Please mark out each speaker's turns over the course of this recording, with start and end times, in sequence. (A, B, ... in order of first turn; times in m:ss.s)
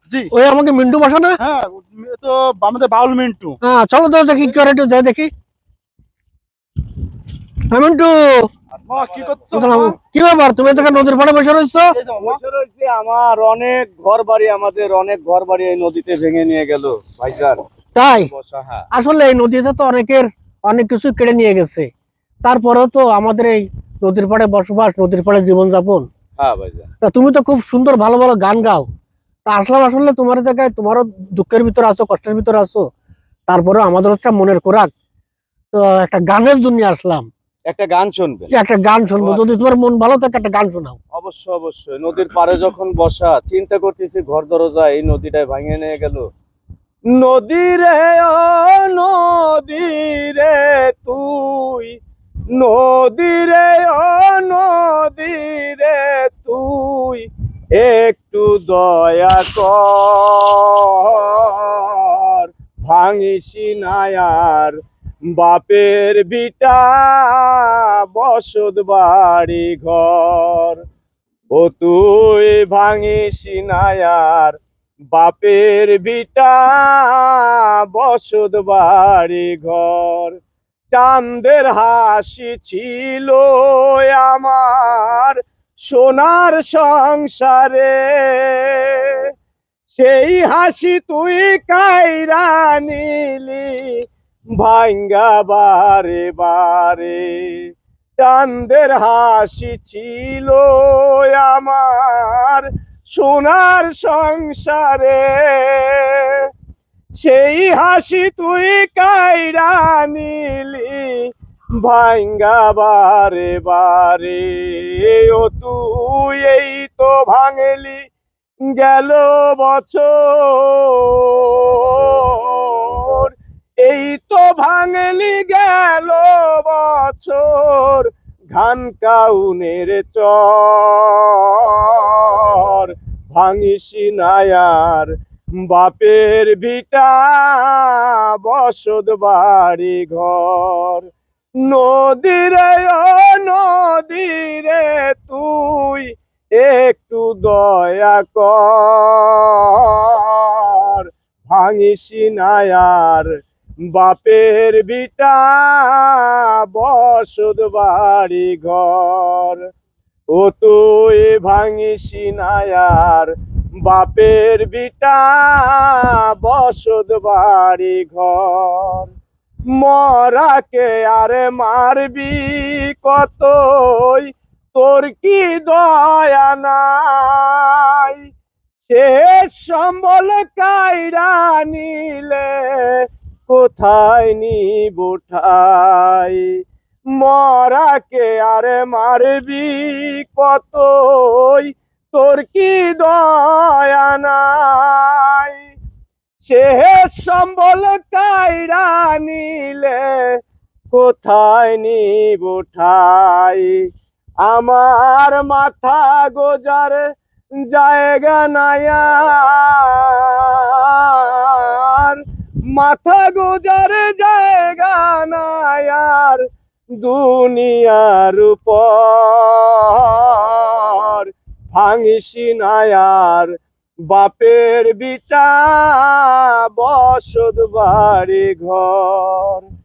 0:00.3-0:01.4 A
0:01.4-0:03.6 B
0:03.6-0:05.3 A
0:07.7-0:08.5 A
0:08.8-0:09.4 C
0:08.9-0:10.0 B
0:09.5-0:11.9 A
0:11.9-0:12.4 B
0:12.2-0:17.6 C
0:18.0-0:18.3 A
0:18.2-0:18.8 C
0:18.9-0:21.9 A
0:22.4-0:26.1 A
0:26.4-0:26.9 C
0:27.0-0:28.9 A
0:29.5-0:32.8 A
0:33.5-0:34.9 A
0:35.7-0:37.3 A
0:37.7-0:38.5 C
0:38.5-0:41.0 A
0:39.2-0:39.6 C
0:41.2-0:46.2 C
0:47.2-0:52.0 C
0:52.6-1:04.8 C
1:05.3-1:10.8 C
1:11.5-1:14.6 C
1:15.1-1:20.4 C
1:20.9-1:29.3 C
1:29.9-1:34.0 C
1:34.6-1:46.5 C
1:47.2-1:58.0 C
1:58.7-2:15.1 C
2:15.7-2:21.1 C
2:21.7-2:33.3 C
2:33.9-2:39.6 C
2:40.3-2:49.1 C
2:49.8-2:58.2 C
2:58.9-3:06.5 C
3:07.2-3:15.6 C
3:16.4-3:20.4 C
3:20.9-3:23.8 C
3:24.4-3:27.0 C
3:27.7-3:32.2 C
3:32.7-3:36.4 C
3:37.0-3:43.5 C
3:44.1-3:49.6 C